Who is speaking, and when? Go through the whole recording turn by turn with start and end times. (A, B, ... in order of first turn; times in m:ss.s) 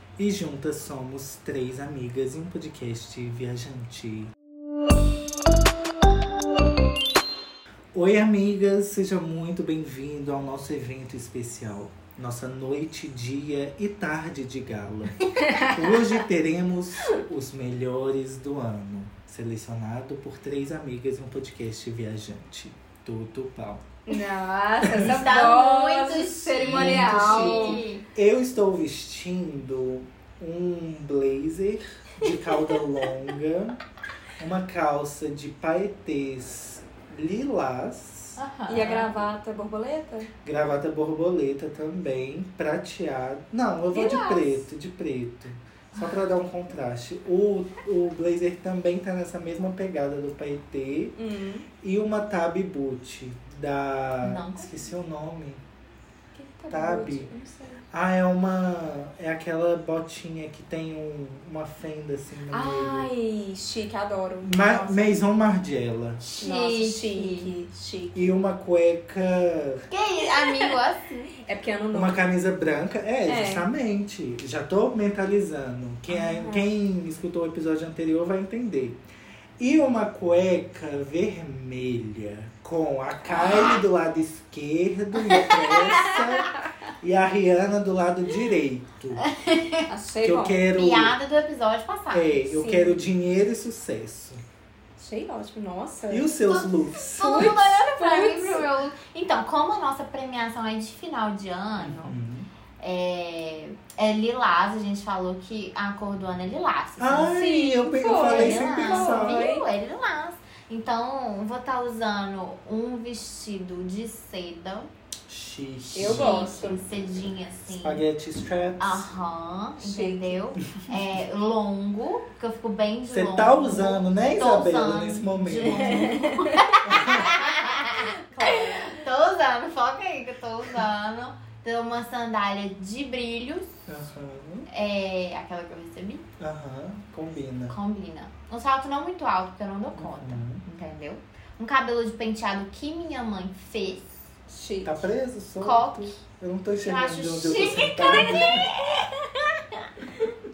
0:00.2-0:04.3 A
0:07.9-0:23.9 A
0:15.4-0:15.8 B
0:24.1-0:27.8 B
0:25.0-0:28.0 C
0:26.6-0:33.8 A
0:34.4-0:38.4 A
0:38.4-0:39.2 C
0:38.7-0:40.3 B
0:40.4-0:51.2 A
0:43.9-0:44.6 B
0:51.2-0:51.7 B
0:51.8-0:55.6 A
0:54.2-0:54.8 C
0:56.3-0:57.8 B
0:56.7-0:57.3 A
0:57.9-1:03.1 A
1:02.5-1:05.2 B
1:04.4-1:06.2 A
1:06.2-1:07.5 C
1:06.4-1:08.4 B
1:08.1-1:09.8 A
1:09.9-1:11.3 C
1:10.4-1:10.8 B
1:11.4-1:12.3 B
1:11.9-1:19.0 A
1:13.3-1:13.7 B
1:16.2-1:16.7 B
1:19.6-1:29.2 A
1:23.3-1:23.8 C
1:25.3-1:26.1 C
1:25.9-1:26.2 B
1:29.2-1:29.9 C
1:29.9-1:30.6 B
1:30.2-1:31.2 A
1:30.7-1:32.5 C
1:32.1-1:34.4 A
1:32.5-1:33.0 B
1:35.0-1:36.3 B
1:36.1-1:37.6 A
1:36.5-1:42.2 C
1:37.0-1:38.7 B
1:41.8-1:42.5 A
1:42.8-1:47.4 C
1:47.0-1:49.4 A
1:47.2-1:49.6 B
1:48.0-1:54.9 C
1:55.3-1:56.4 A
1:55.9-1:56.8 B
1:55.9-1:58.0 C
1:57.7-1:59.1 A
1:58.8-2:13.8 C
1:59.8-2:00.4 B
2:03.1-2:06.1 A
2:05.7-2:06.8 B
2:06.8-2:07.3 A
2:08.4-2:08.9 B
2:13.9-2:14.7 A
2:14.7-2:16.2 C
2:16.4-2:17.8 A
2:17.7-2:24.2 C
2:20.0-2:20.6 A
2:24.5-2:25.0 B
2:24.8-2:28.7 A
2:25.6-2:26.2 C
2:26.8-2:30.3 C
2:27.5-2:28.5 B